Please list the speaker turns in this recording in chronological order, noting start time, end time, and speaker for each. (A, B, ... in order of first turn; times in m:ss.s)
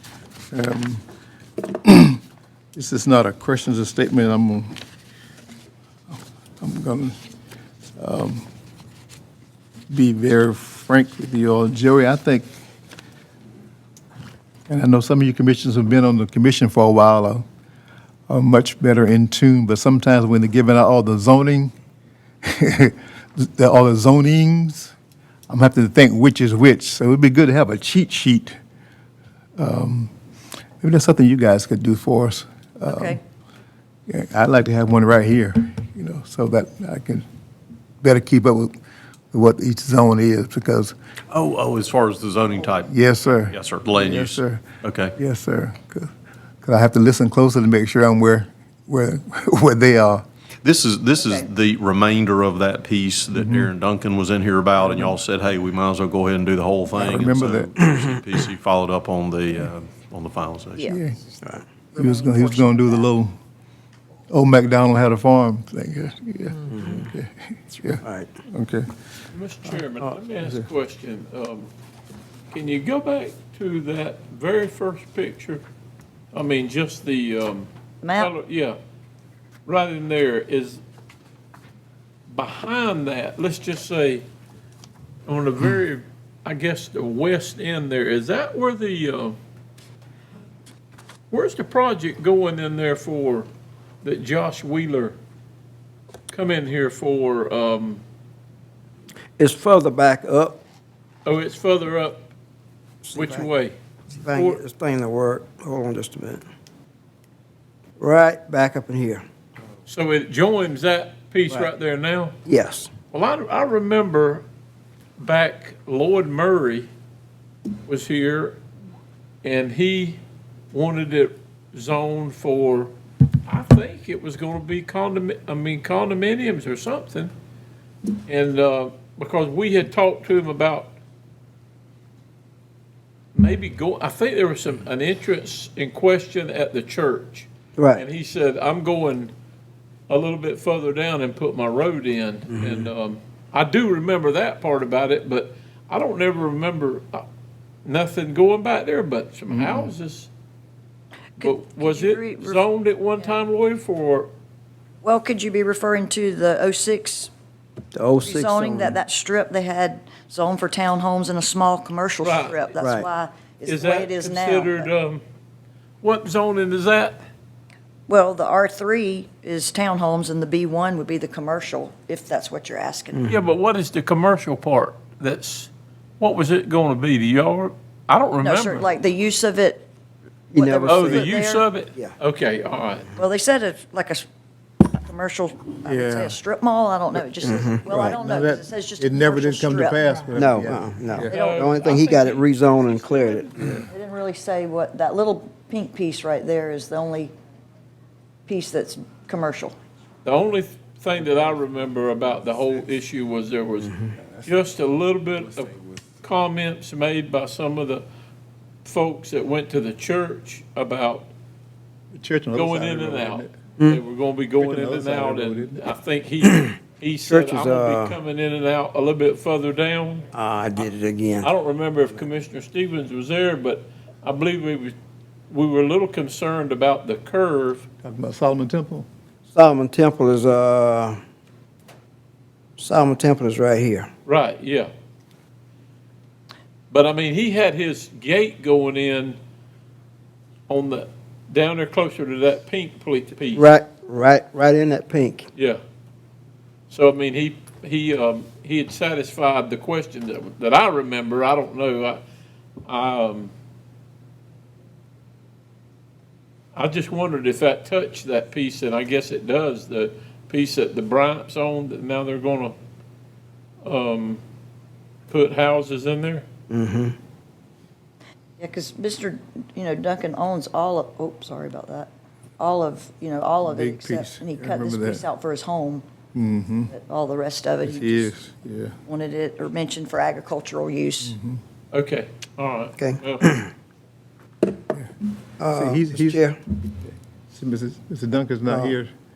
0:00.5-0:01.0 A
0:01.7-0:02.2 A
0:02.7-0:04.7 A
0:06.6-0:07.2 A
0:08.0-0:08.4 A
0:09.9-0:12.5 A
0:14.7-0:17.4 A
0:18.3-0:21.7 A
0:22.4-0:24.9 A
0:25.5-0:28.6 A
0:29.6-0:30.1 A
0:30.8-0:33.2 A
0:32.8-0:33.2 B
0:34.1-0:37.2 A
0:38.0-0:38.7 A
0:39.3-0:40.9 A
0:41.3-0:42.9 C
0:42.8-0:44.6 A
0:43.5-0:45.1 C
0:45.2-0:46.1 A
0:46.6-0:50.2 A
0:50.6-1:00.8 C
0:51.2-0:51.5 B
0:53.3-0:53.7 A
0:54.8-0:55.2 A
0:56.9-0:57.7 A
1:00.8-1:03.1 B
1:00.9-1:01.2 A
1:02.0-1:03.3 A
1:04.3-1:08.8 A
1:06.7-1:07.1 D
1:08.0-1:08.3 D
1:09.3-1:11.7 E
1:12.5-1:15.6 E
1:16.3-1:18.8 E
1:18.0-1:18.3 B
1:19.6-1:20.8 E
1:22.3-1:24.2 E
1:25.2-1:29.4 E
1:31.3-1:33.5 E
1:34.0-1:35.2 E
1:36.3-1:38.0 E
1:39.4-1:40.6 D
1:41.2-1:42.3 E
1:43.0-1:43.5 D
1:43.1-1:43.7 E
1:44.2-1:46.4 D
1:44.3-1:44.6 E
1:48.0-1:49.2 D
1:49.9-1:52.3 E
1:52.4-1:52.9 D
1:53.1-1:54.4 E
1:55.2-1:56.9 E
1:57.8-1:58.6 E
1:59.4-2:00.2 E
2:00.7-2:02.9 E
2:03.4-2:07.3 E
2:08.2-2:10.9 E
2:13.3-2:19.3 E
2:17.8-2:18.0 D
2:20.1-2:27.2 E
2:22.5-2:22.8 D
2:27.8-2:30.3 E
2:29.5-2:29.9 A
2:31.4-2:32.6 B
2:31.4-2:34.3 E
2:35.0-2:37.3 B
2:37.9-2:39.0 D
2:38.2-2:44.9 B
2:42.2-2:42.8 E
2:42.8-2:43.1 D
2:43.6-2:45.2 E
2:46.0-2:47.2 E
2:48.1-2:53.3 B
2:53.1-2:53.4 D
2:53.3-2:58.9 E
2:58.4-2:59.9 B
3:00.5-3:01.3 D
3:00.5-3:01.6 B
3:00.9-3:03.1 E
3:03.1-3:04.2 B
3:04.8-3:10.2 B
3:05.8-3:06.4 A
3:07.4-3:08.2 D
3:08.0-3:11.3 A
3:10.3-3:13.8 D
3:11.3-3:11.7 B
3:11.3-3:12.5 E
3:13.9-3:17.3 B
3:18.5-3:19.8 B
3:20.2-3:28.0 E
3:28.8-3:31.3 E
3:32.1-3:33.6 A
3:32.5-3:40.2 E
3:34.6-3:35.8 A
3:37.2-3:38.1 D
3:40.3-3:41.5 D
3:41.4-3:44.9 E
3:45.5-3:47.8 E
3:48.0-3:49.1 A
3:49.5-3:51.2 D
3:52.8-3:54.1 D
3:54.2-3:54.9 E
3:56.9-3:59.4 E
4:00.7-4:03.7 E
4:03.5-4:05.5 D
4:06.9-4:12.2 E
4:12.8-4:13.5 E
4:16.7-4:22.8 E
4:23.8-4:24.4 E
4:25.3-4:26.4 E
4:26.7-4:27.2 D
4:28.6-4:36.0 B
4:33.6-4:35.2 A
4:36.3-4:36.9 A
4:36.9-4:38.3 B
4:37.8-4:38.9 A
4:39.0-4:41.4 B
4:41.2-4:41.6 A
4:41.9-4:43.5 E
4:43.0-4:43.7 D
4:45.6-4:46.6 D
4:45.7-4:49.1 A
4:48.7-4:48.9 D